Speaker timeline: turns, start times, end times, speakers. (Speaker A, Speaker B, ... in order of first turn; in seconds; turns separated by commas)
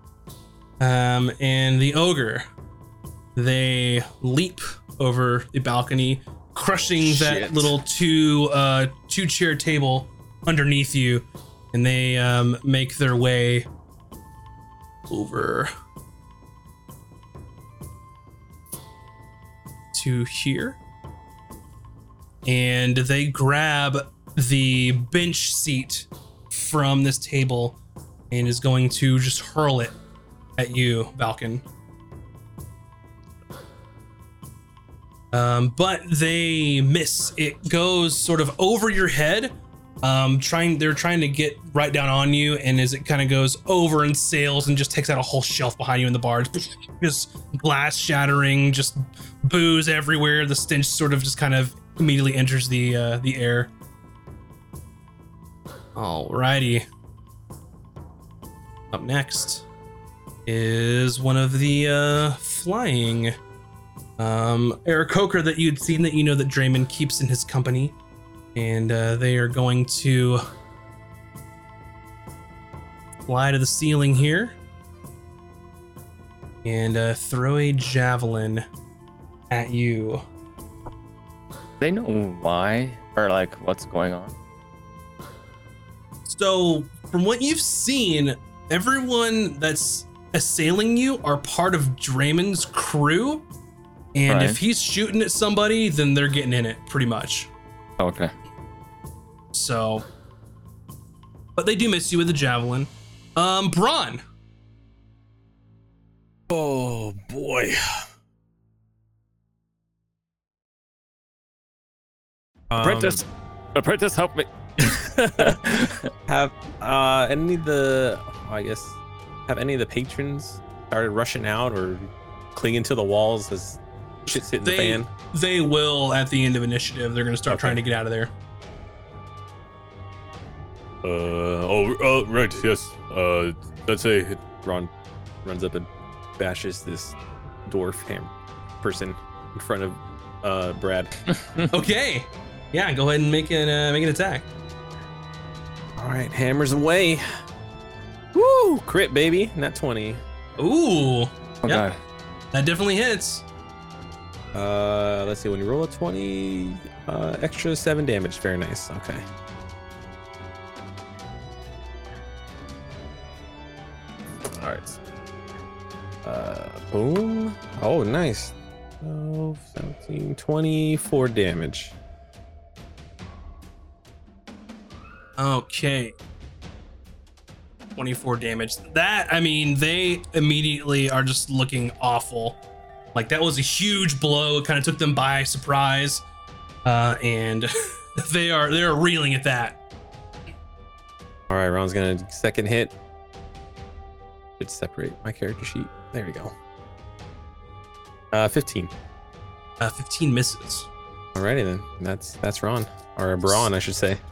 Speaker A: 0.8-2.5, Speaker A: 3.4-13.7, Speaker B: 6.9-7.8, Speaker A: 15.1-15.7, Speaker A: 19.9-20.8, Speaker A: 22.4-27.8, Speaker A: 28.3-29.9, Speaker A: 30.6-31.6, Speaker A: 35.3-53.7, Speaker A: 56.0-56.9, Speaker A: 58.9-59.6, Speaker A: 60.5-63.4, Speaker A: 64.2-68.0, Speaker A: 68.5-70.4, Speaker A: 73.3-74.5, Speaker A: 76.6-78.6, Speaker A: 79.5-80.2, Speaker C: 81.8-84.3, Speaker A: 86.2-93.5, Speaker A: 94.1-97.5, Speaker C: 94.3-94.6, Speaker C: 98.0-98.3, Speaker A: 99.5-100.0, Speaker A: 101.5-104.2, Speaker B: 106.5-108.1, Speaker B: 112.7-113.2, Speaker C: 112.8-113.2, Speaker C: 113.7-116.1, Speaker B: 116.3-119.0, Speaker B: 119.5-125.1, Speaker A: 124.6-128.3, Speaker D: 131.0-134.6, Speaker B: 134.6-134.9, Speaker B: 135.4-137.1, Speaker B: 137.7-141.2, Speaker A: 141.7-144.5, Speaker B: 146.0-147.2, Speaker B: 148.3-150.2, Speaker A: 150.6-151.8, Speaker C: 151.6-152.0, Speaker A: 152.5-153.4, Speaker B: 154.5-159.2, Speaker B: 164.5-165.0, Speaker B: 166.2-171.9, Speaker A: 175.4-176.2, Speaker A: 177.9-182.6, Speaker A: 183.1-186.2, Speaker A: 186.8-189.8, Speaker B: 191.5-192.9, Speaker B: 194.6-196.6, Speaker B: 198.3-198.9, Speaker A: 199.8-200.9, Speaker B: 201.3-204.2